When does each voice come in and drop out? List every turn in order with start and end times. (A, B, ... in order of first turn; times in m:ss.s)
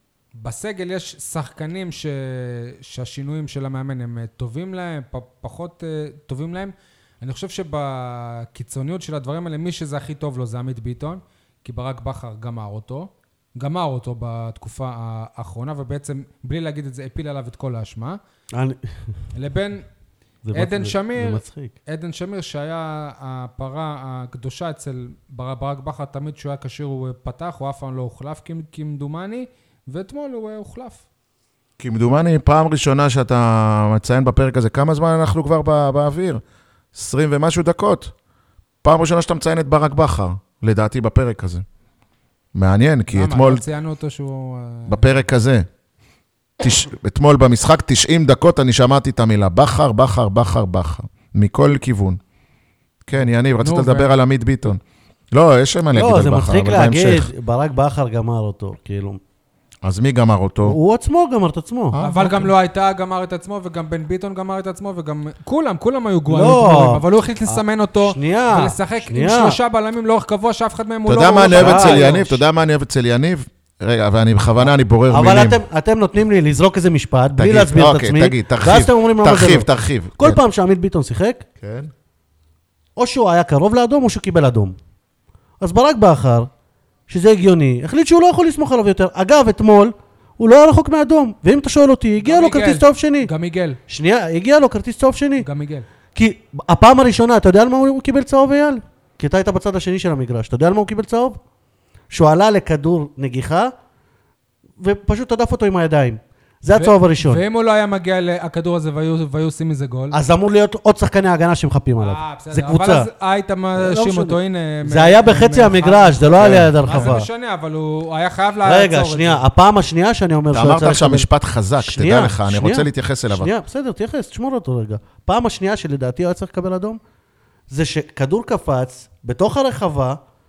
0:00.4-0:18.2 A
0:18.5-0:18.9 B
0:19.4-0:19.9 A
0:20.4-0:21.7 B
0:20.5-0:31.0 A
0:31.8-0:36.4 C
0:36.9-0:38.1 C
0:38.8-0:41.6 C
0:42.6-0:43.6 C
0:43.1-0:45.2 A
0:44.9-0:45.7 C
0:46.6-0:52.2 C
0:53.0-0:54.8 C
0:53.6-0:54.1 A
0:55.3-0:57.3 C
0:55.9-0:59.2 B
0:59.8-1:00.8 C
1:00.6-1:02.0 B
1:01.9-1:02.5 C
1:02.0-1:12.4 A
1:06.3-1:09.6 B
1:11.1-1:15.6 C
1:11.5-1:12.2 B
1:14.6-1:19.7 B
1:17.4-1:20.4 C
1:20.2-1:21.4 B
1:21.6-1:21.9 C
1:23.0-1:24.8 B
1:25.6-1:26.5 B
1:27.1-1:33.3 B
1:32.2-1:33.8 A
1:33.9-1:35.4 B
1:35.4-1:35.9 A
1:36.1-1:41.4 B
1:42.1-1:43.7 B
1:44.8-1:47.4 B
1:46.8-1:50.2 A
1:50.1-1:53.1 B
1:52.0-1:59.4 A
1:53.7-1:57.3 B
1:56.4-1:57.1 C
1:58.6-2:01.3 B
2:00.5-2:03.5 C
2:01.8-2:07.0 B
2:07.7-2:10.2 B